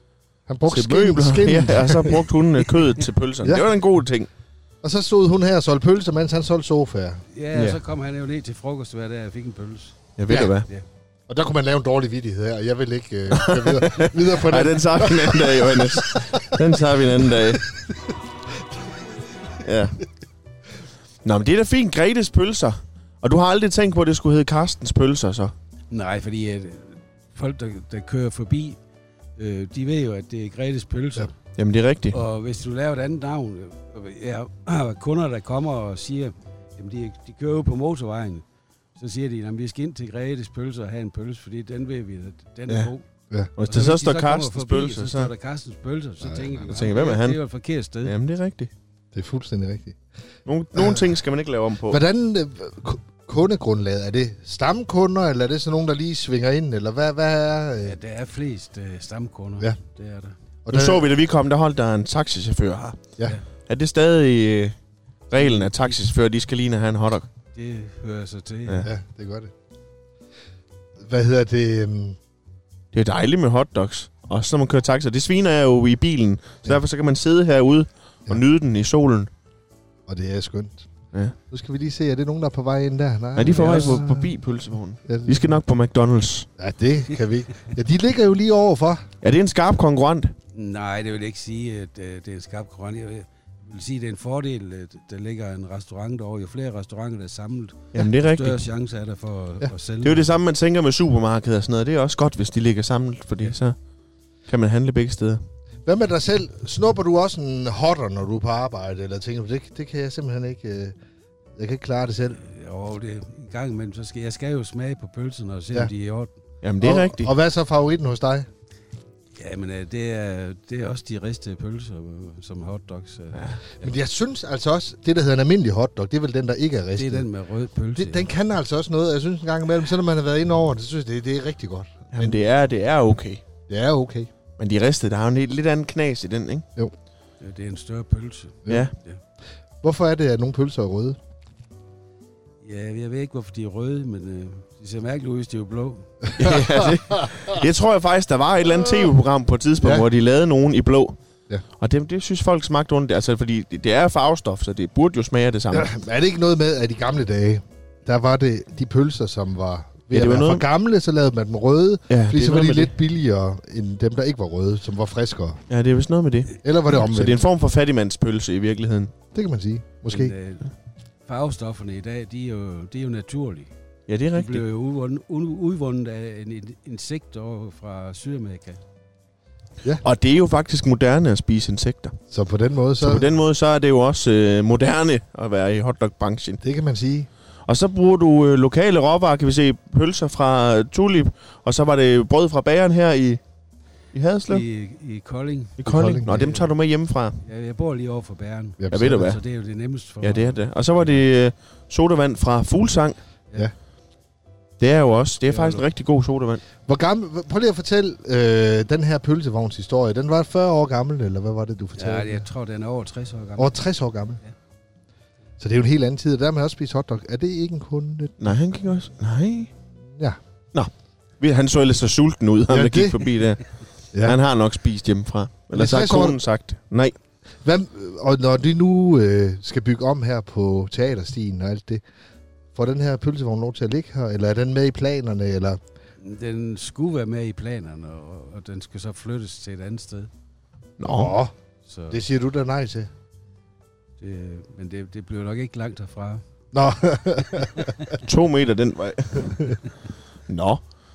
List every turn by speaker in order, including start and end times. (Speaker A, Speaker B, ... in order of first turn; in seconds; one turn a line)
Speaker A: 0.5-2.2
Speaker B: 0.7-4.3
Speaker A: 3.4-3.7
Speaker A: 4.8-7.2
Speaker C: 7.3-10.0
Speaker B: 7.5-7.8
Speaker B: 10.2-10.7
Speaker A: 10.3-10.6
Speaker A: 11.3-18.0
Speaker B: 13.3-17.6
Speaker B: 19.6-20.0
Speaker B: 21.2-25.5
Speaker C: 25.9-28.8
Speaker C: 29.4-31.3
Speaker B: 31.6-32.2
Speaker C: 32.1-38.4
Speaker C: 39.0-43.1
Speaker B: 43.6-45.3
Speaker C: 43.6-48.1
Speaker A: 46.2-46.6
Speaker B: 46.6-47.4
Speaker B: 48.0-48.7
Speaker A: 49.1-50.0
Speaker B: 50.5-52.0
Speaker A: 50.7-51.2
Speaker A: 51.9-58.0
Speaker C: 57.8-60.3
Speaker A: 60.6-61.1
Speaker B: 60.7-63.0
Speaker B: 63.7-64.8
Speaker B: 65.3-67.3
Speaker C: 65.3-66.0
Speaker C: 67.5-68.9
Speaker A: 68.8-69.5
Speaker A: 71.0-72.2
Speaker B: 72.9-79.3
Speaker A: 80.1-80.9
Speaker A: 81.5-84.3
Speaker B: 83.3-86.5
Speaker C: 83.5-84.0
Speaker A: 85.0-85.5
Speaker A: 86.6-89.0
Speaker B: 89.2-90.3
Speaker C: 90.5-100.2
Speaker B: 97.9-98.7
Speaker B: 100.0-103.8
Speaker B: 104.5-105.4
Speaker A: 105.8-111.0
Speaker A: 111.5-112.4
Speaker C: 112.3-116.3
Speaker B: 116.6-117.3
Speaker A: 116.8-118.5
Speaker C: 119.3-123.9
Speaker A: 123.8-127.3
Speaker C: 127.0-128.3
Speaker A: 127.9-132.4
Speaker B: 132.1-133.4
Speaker A: 133.7-134.3
Speaker B: 134.6-136.7
Speaker C: 137.4-139.2
Speaker A: 139.8-141.2
Speaker C: 142.6-146.3
Speaker B: 146.4-151.2
Speaker A: 146.4-147.3
Speaker A: 149.8-150.1
Speaker B: 151.8-155.9
Speaker A: 155.7-165.6
Speaker B: 160.1-160.6
Speaker B: 162.1-162.9
Speaker B: 165.7-169.1
Speaker A: 166.6-167.4
Speaker A: 169.3-170.3
Speaker C: 170.1-170.7
Speaker C: 171.2-173.7
Speaker B: 174.1-174.6
Speaker C: 174.3-178.8
Speaker B: 180.0-182.2
Speaker A: 182.3-183.3
Speaker B: 183.0-186.6
Speaker A: 186.6-187.3
Speaker B: 187.7-193.4
Speaker B: 194.1-194.6
Speaker C: 194.5-196.7
Speaker B: 195.8-197.4
Speaker A: 195.9-196.6
Speaker C: 197.4-200.6
Speaker A: 198.8-199.2
Speaker B: 198.9-199.4
Speaker B: 200.2-203.2
Speaker B: 204.8-206.6
Speaker C: 205.5-205.8
Speaker A: 206.8-212.4
Speaker C: 212.0-213.8
Speaker A: 213.6-214.4
Speaker A: 215.6-218.5
Speaker B: 218.4-219.7
Speaker A: 220.1-220.4
Speaker B: 220.7-223.6
Speaker A: 222.7-223.3
Speaker A: 224.1-224.4
Speaker B: 224.2-227.1
Speaker A: 225.7-226.4
Speaker A: 227.6-232.0
Speaker A: 232.7-235.8
Speaker C: 236.2-240.3
Speaker B: 241.0-241.4
Speaker A: 241.0-241.5
Speaker C: 241.8-242.2
Speaker A: 242.1-243.1
Speaker C: 244.2-246.4
Speaker A: 246.7-248.2
Speaker B: 248.2-249.8
Speaker B: 250.5-250.8